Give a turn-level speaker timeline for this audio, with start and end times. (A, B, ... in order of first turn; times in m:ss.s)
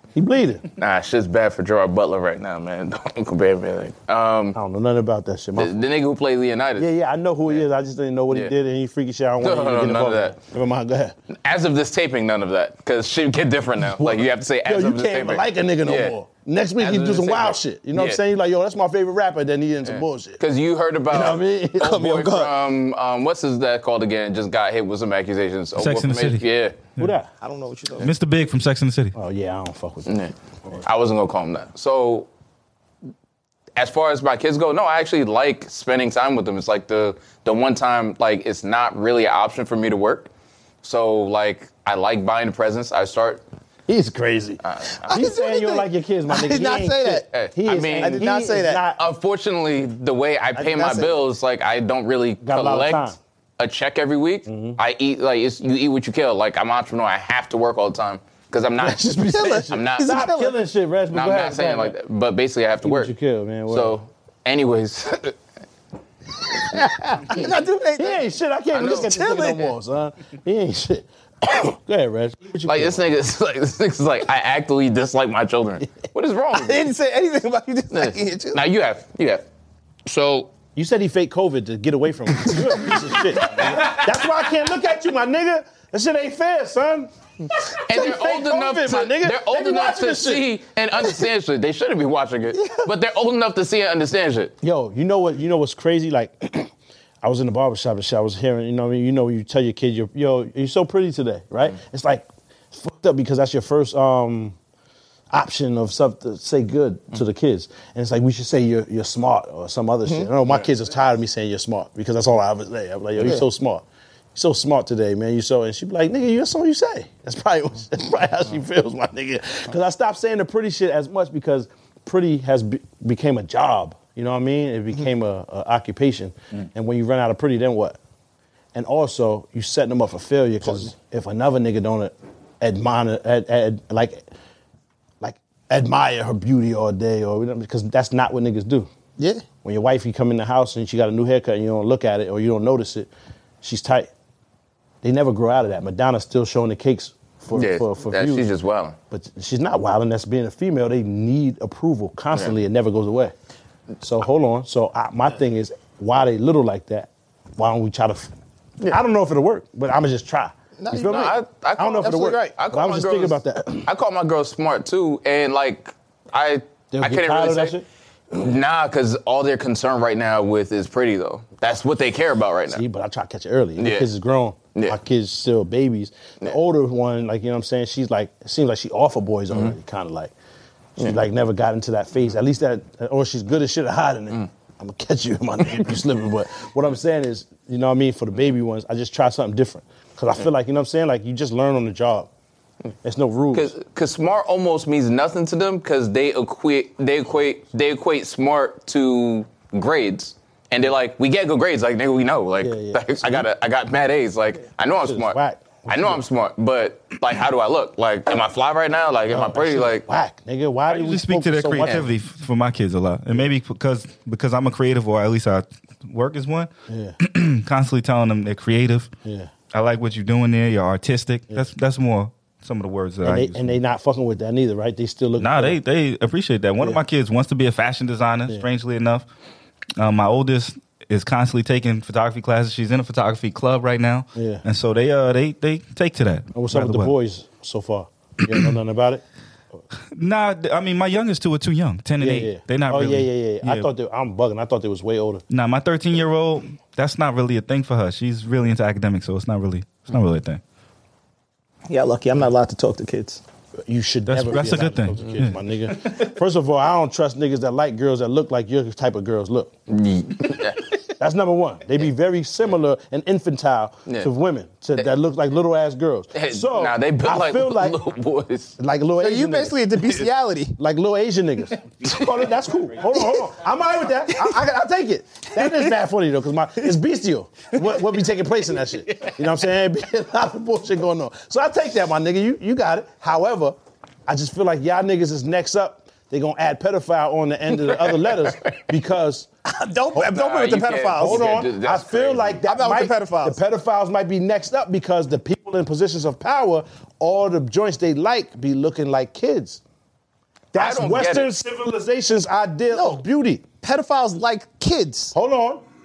0:00.2-0:00.6 A
0:00.8-0:04.6 B
0:04.6-0:05.8 A
0:05.6-0:06.9 B
0:06.8-0:11.2 A
0:09.4-0:10.3 B
0:11.4-0:16.2 B
0:14.0-0:20.4 A
0:16.8-0:18.2 B
0:19.9-0:26.8 B
0:21.1-0:22.0 A
0:21.8-0:22.5 C
0:25.8-0:26.4 D
0:27.0-0:27.3 A
0:27.4-0:28.1 C
0:28.0-0:29.1 D
0:29.2-0:30.2 A
0:30.1-0:32.3 B
0:33.8-0:40.3 B
0:40.8-0:43.4 B
0:43.9-0:49.0 A
0:44.6-0:45.3 B
0:45.1-0:47.3 C
0:47.3-0:48.3 B
0:48.0-0:48.8 C
0:49.0-0:59.1 B
0:50.6-0:51.2 A
0:52.4-0:53.2 A
0:54.5-0:54.8 A
0:58.8-1:02.0 A
0:59.3-1:00.5 C
0:59.7-1:00.2 B
1:01.1-1:03.1 B
1:02.8-1:04.0 A
1:03.7-1:05.4 B
1:06.6-1:13.1 A
1:07.3-1:08.2 C
1:08.7-1:09.1 B
1:08.8-1:09.7 C
1:12.7-1:16.9 B
1:16.5-1:18.6 C
1:17.9-1:19.4 B
1:20.1-1:20.5 B
1:20.8-1:27.1 A
1:23.5-1:24.1 B
1:27.9-1:34.5 B
1:27.9-1:30.5 A
1:32.6-1:32.9 C
1:34.6-1:36.7 A
1:37.2-1:44.6 A
1:45.3-1:53.8 A
1:54.4-2:08.0 A
2:08.7-2:14.3 A
2:15.2-2:18.9 A
2:19.2-2:19.4 C
2:19.6-2:23.1 A
2:23.6-2:24.1 A
2:25.0-2:28.5 A
2:27.6-2:29.0 B
2:29.1-2:33.3 A
2:34.0-2:38.3 A
2:38.9-2:43.9 A
2:40.8-2:42.6 C
2:41.0-2:47.8 B
2:46.9-2:47.8 A
2:48.3-2:52.8 B
2:52.7-3:00.3 A
2:53.8-2:54.1 B
3:01.0-3:12.3 A
3:13.0-3:13.7 A
3:13.5-3:25.4 B
3:22.6-3:23.5 A
3:25.0-3:26.2 A
3:25.9-3:30.1 B
3:29.3-3:32.1 A
3:30.9-3:36.7 D
3:36.9-3:37.2 A
3:37.2-3:39.1 D
3:39.2-3:39.5 A
3:39.7-3:43.7 D
3:43.2-3:45.8 A
3:45.4-3:49.3 D
3:50.0-3:57.1 D
3:54.4-3:54.6 A
3:56.6-3:59.2 A
4:00.1-4:03.9 D
4:02.2-4:05.4 A
4:05.5-4:10.6 D
4:11.9-4:13.4 C
4:13.9-4:19.7 A
4:14.3-4:16.2 D
4:19.9-4:21.0 B
4:21.2-4:28.0 A
4:26.3-4:28.7 B
4:28.8-4:29.8 A
4:29.2-4:30.8 C
4:30.8-4:49.5 A
4:35.6-4:35.9 C
4:48.1-4:48.8 B
4:49.7-4:51.6 C
4:50.2-4:52.6 B
4:51.2-4:59.8 A
4:52.6-4:53.6 C
5:00.7-5:03.6 A
5:00.8-5:01.5 B
5:02.9-5:03.2 C
5:03.8-5:05.4 C
5:05.3-5:05.8 A